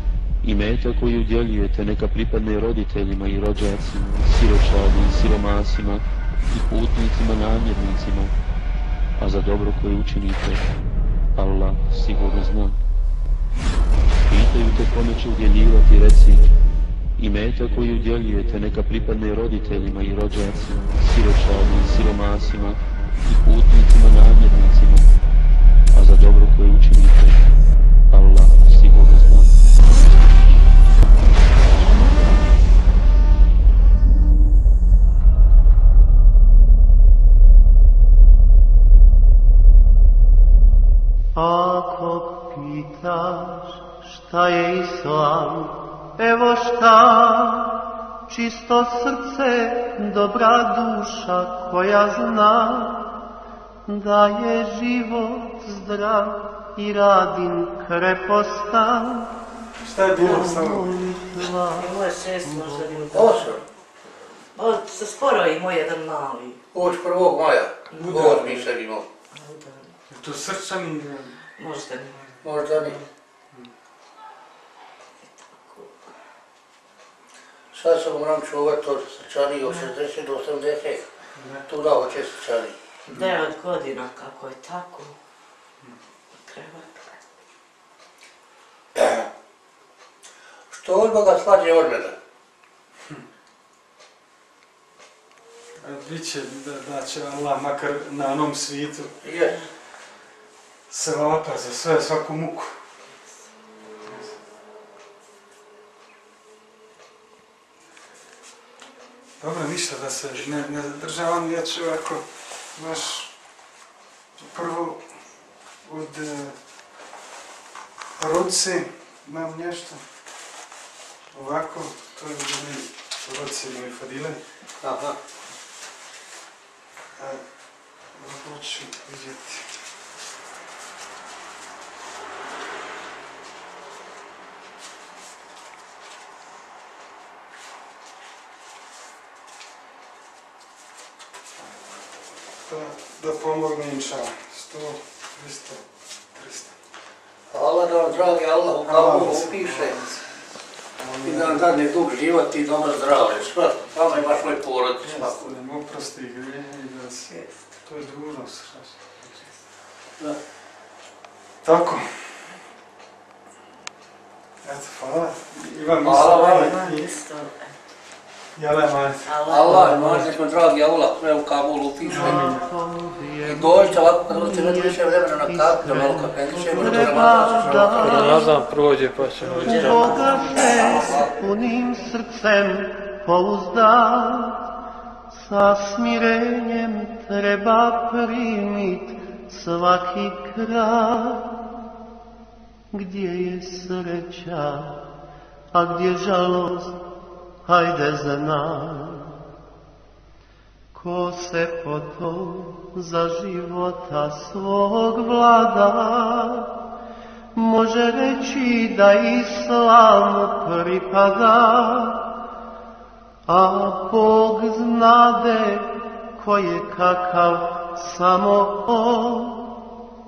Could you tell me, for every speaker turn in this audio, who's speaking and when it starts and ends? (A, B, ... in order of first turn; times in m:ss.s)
0:00.4-0:08.3 A
0:09.2-0:10.6 A
0:11.3-0:12.8 A
0:14.3-0:16.4 A
0:17.2-0:25.1 A
0:25.9-0:27.4 A
0:28.1-0:29.5 A
0:41.3-0:53.2 B
0:53.9-0:59.4 B
0:59.8-1:00.9 C
1:00.1-1:03.1 B
1:01.7-1:03.6 D
1:03.1-1:03.6 E
1:04.5-1:06.6 D
1:06.7-1:09.1 E
1:07.9-1:08.6 D
1:08.0-1:08.6 C
1:09.3-1:09.9 D
1:10.1-1:11.4 C
1:11.6-1:12.2 D
1:12.1-1:13.7 C
1:12.4-1:13.0 E
1:15.2-1:15.9 D
1:17.7-1:21.0 E
1:19.6-1:19.9 D
1:21.3-1:21.7 C
1:21.7-1:22.7 E
1:23.0-1:25.1 D
1:26.4-1:27.1 D
1:29.0-1:29.2 E
1:30.7-1:32.2 E
1:35.8-1:39.2 C
1:39.2-1:39.6 E
1:40.9-1:42.8 C
1:44.0-1:44.4 C
1:49.4-1:53.3 C
1:54.4-1:55.0 C
1:55.8-1:56.6 C
1:58.2-2:00.0 C
2:01.3-2:04.4 C
2:04.8-2:05.2 E
2:07.2-2:07.4 C
2:08.1-2:09.7 C
2:22.7-2:25.8 C
2:26.3-2:26.7 C
2:27.5-2:30.0 E
2:28.8-2:30.4 C
2:30.9-2:31.7 C
2:31.2-2:35.5 E
2:35.0-2:39.2 C
2:37.3-2:37.5 D
2:41.6-2:42.4 C
2:44.6-2:47.1 C
2:46.0-2:46.4 E
2:46.1-2:47.7 D
2:48.5-2:50.1 C
2:49.2-2:50.3 D
2:49.5-2:52.5 E
2:52.0-2:58.5 B
2:52.1-2:52.7 C
2:53.4-2:58.3 E
2:58.0-3:00.0 F
2:59.4-3:01.0 D
2:59.6-3:04.7 B
3:00.8-3:01.3 E
3:05.3-3:11.8 B
3:12.9-3:15.1 B
3:15.7-3:17.0 B
3:17.6-3:19.4 B
3:20.9-3:26.8 B
3:27.5-3:32.4 B
3:33.5-3:39.9 B